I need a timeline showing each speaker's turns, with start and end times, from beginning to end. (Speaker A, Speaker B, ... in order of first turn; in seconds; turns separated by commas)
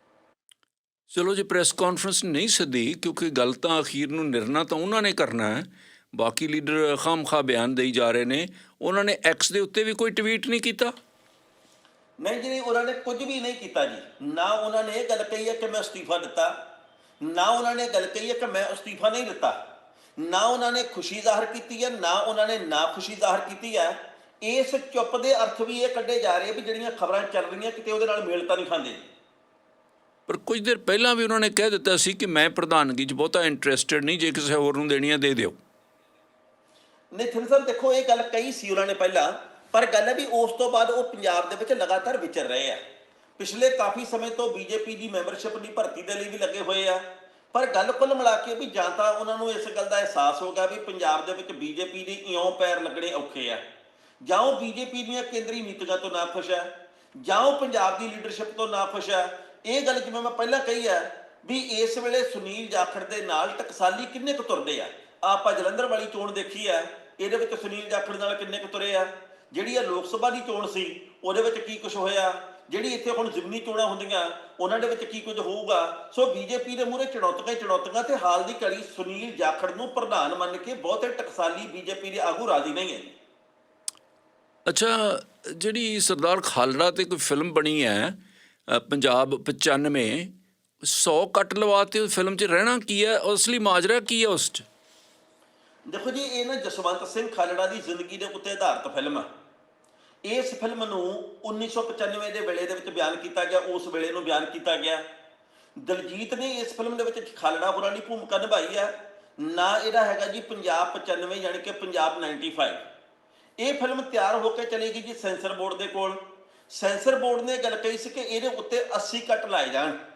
Speaker A: 1.1-10.9, Speaker B: 12.2-16.5, Speaker B: 17.2-19.6, Speaker B: 20.2-29.0, Speaker A: 30.3-35.6, Speaker B: 37.1-42.8, Speaker B: 43.4-53.6, Speaker B: 54.2-83.1, Speaker A: 84.7-88.2, Speaker A: 88.7-90.3, Speaker A: 90.8-94.6, Speaker B: 95.9-99.2, Speaker B: 100.2-105.0, Speaker B: 105.8-112.8, Speaker B: 113.6-116.2, Speaker B: 116.7-120.0